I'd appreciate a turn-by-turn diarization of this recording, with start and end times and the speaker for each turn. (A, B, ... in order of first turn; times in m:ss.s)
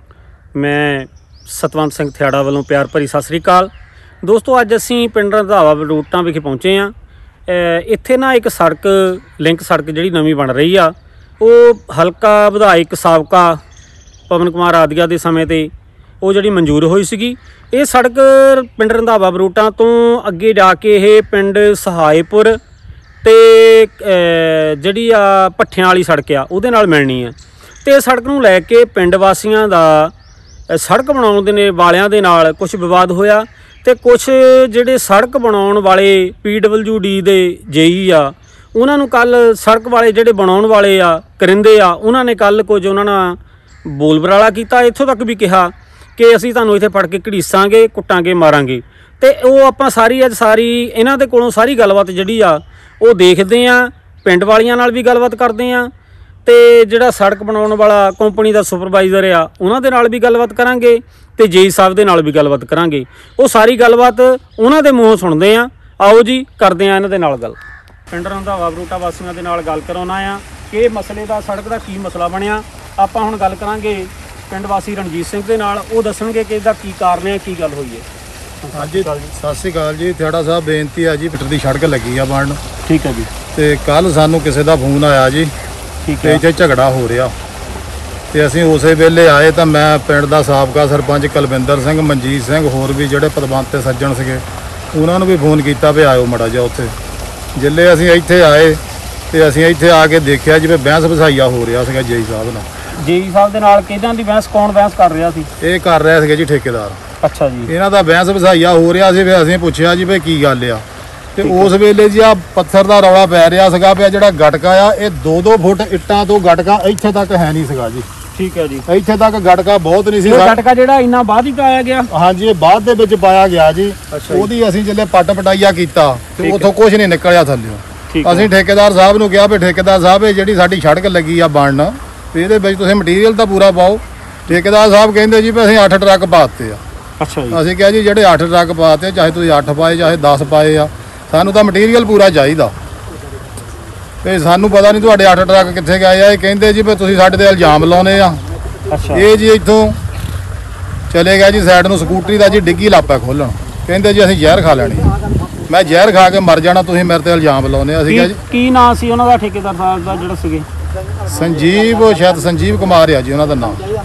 0:00.6-0:03.7 A
0:04.2-0:06.9 A
0:07.5-0:13.6 A
0:14.3-0:15.7 A
0:16.2-0:22.6 A
0:23.2-0:30.1 A
0:30.7-0:55.9 A
0:56.4-1:07.6 A
1:08.1-1:18.0 A
1:18.6-1:19.3 A
1:18.7-1:22.6 B
1:22.9-1:23.3 A
1:23.5-1:25.5 B
1:26.0-1:26.4 A
1:26.2-1:27.3 B
1:28.3-1:36.9 B
1:37.6-1:38.8 B
1:39.3-1:42.7 B
1:43.0-1:45.5 A
1:45.6-1:47.0 B
1:47.2-1:47.7 A
1:47.7-1:50.8 B
1:51.3-1:58.0 B
1:51.4-1:51.7 A
1:58.4-1:58.8 A
1:58.9-2:00.6 B
2:00.2-2:02.1 A
2:02.1-2:16.8 B
2:04.1-2:04.5 A
2:06.4-2:06.7 A
2:08.1-2:08.5 A
2:17.2-2:17.6 A
2:17.5-2:22.7 B
2:24.2-2:28.4 B
2:28.9-2:29.2 A
2:29.1-2:30.0 B
2:31.1-2:35.1 B
2:35.7-2:38.3 B
2:38.1-2:40.7 A
2:41.2-2:43.8 B